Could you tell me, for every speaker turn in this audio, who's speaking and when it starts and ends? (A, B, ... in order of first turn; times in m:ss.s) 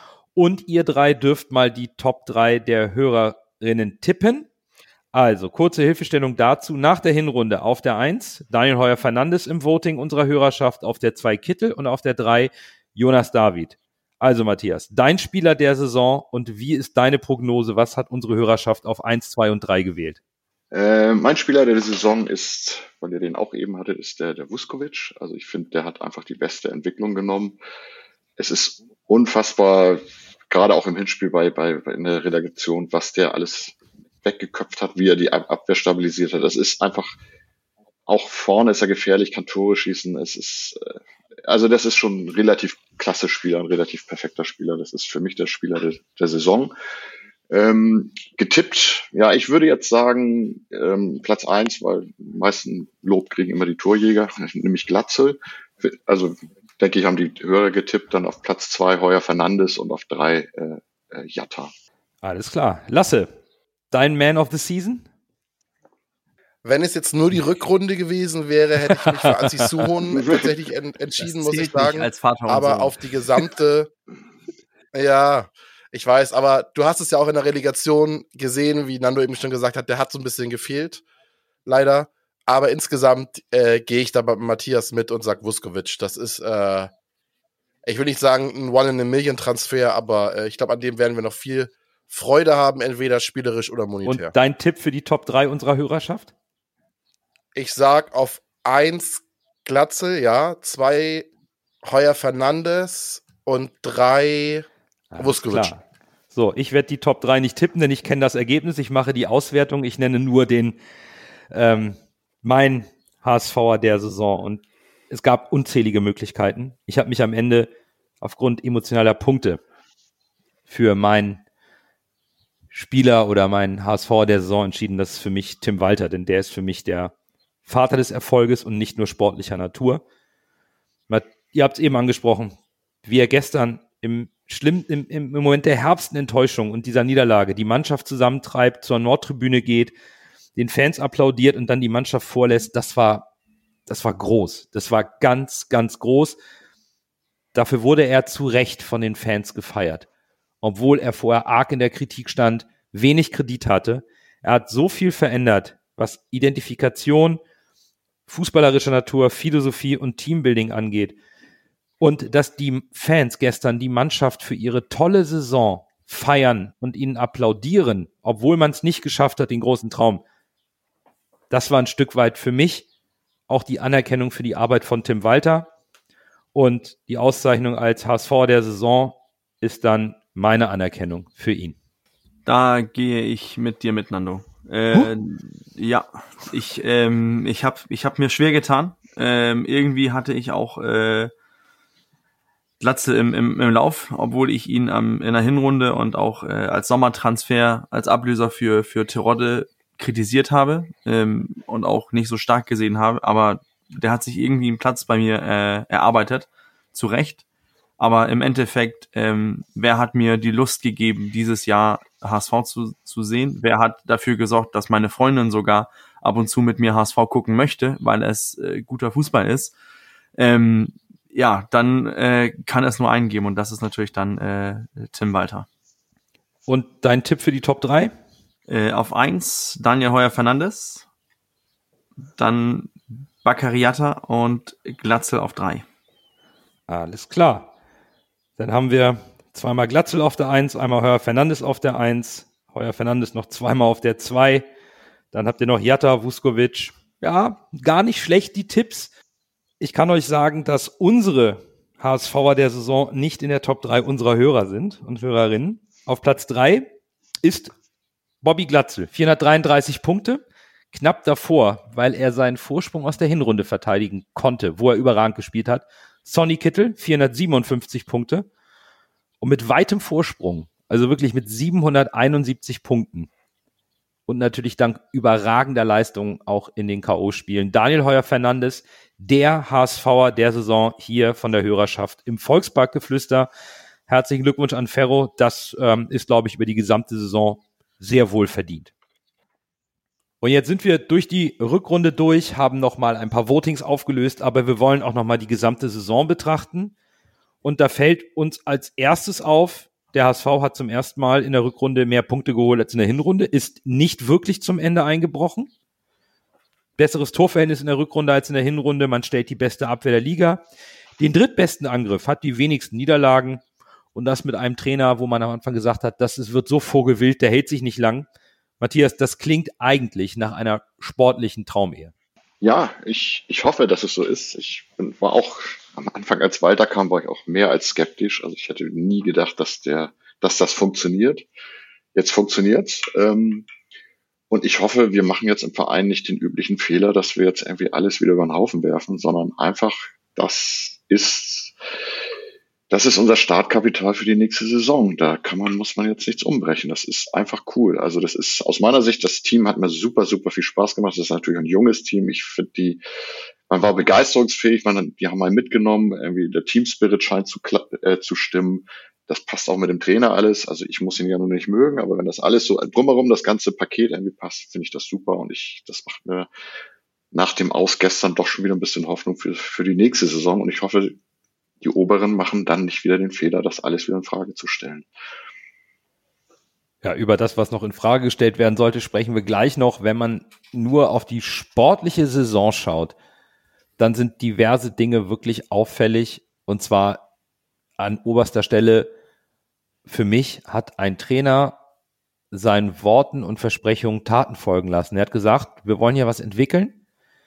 0:00.4-0:04.5 A
0:05.1-0:20.2 A
0:20.7-0:27.6 B
0:28.4-0:37.2 B
0:38.1-0:46.7 B
0:47.5-1:01.7 B
1:02.2-1:03.3 A
1:03.9-1:05.1 A
1:06.6-1:13.9 C
1:09.2-1:09.7 A
1:10.1-1:10.5 B
1:11.2-1:12.9 D
1:14.9-1:21.0 C
1:21.7-1:26.9 C
1:27.8-1:34.3 C
1:34.0-1:36.3 A
1:37.6-1:41.3 C
1:41.8-1:44.7 C
1:45.1-1:50.8 A
1:45.2-1:45.7 C
1:51.5-1:59.6 A
2:00.7-2:01.4 A
2:02.7-2:07.1 A
2:07.7-2:10.0 A
2:11.1-2:20.0 A
2:20.6-2:23.3 A
2:23.9-2:26.4 A
2:27.5-2:30.1 A
2:30.6-2:37.4 A
2:38.3-2:41.2 A
2:42.0-2:50.2 A
2:51.5-2:52.9 A
2:53.5-2:55.7 A
2:56.5-3:01.8 A
3:02.5-3:11.3 D
3:12.8-3:27.4 D
3:28.0-3:39.7 D
3:40.4-3:45.7 D
3:46.7-3:48.1 A
3:48.7-3:51.0 D
3:52.4-3:55.8 D
3:56.9-3:57.7 A
3:58.6-4:04.7 A
4:05.3-4:09.1 A
4:09.8-4:16.9 A
4:17.4-4:17.7 A
4:18.4-4:28.5 A
4:29.4-4:33.3 A
4:34.3-4:43.5 A
4:44.1-4:48.9 A
4:50.4-4:56.9 A
4:57.6-5:05.7 A
5:07.0-5:10.6 A
5:11.2-5:13.6 A
5:14.1-5:18.3 A
5:18.8-5:22.1 A
5:22.6-5:31.5 B
5:32.2-5:33.7 B
5:34.5-5:41.7 B
5:42.9-5:53.0 B
5:53.7-6:06.5 B
6:07.3-6:11.2 B
6:11.8-6:15.1 B
6:17.0-6:23.2 A
6:24.0-6:27.2 A
6:28.0-6:29.1 A
6:30.1-6:31.8 A
6:32.5-6:37.0 A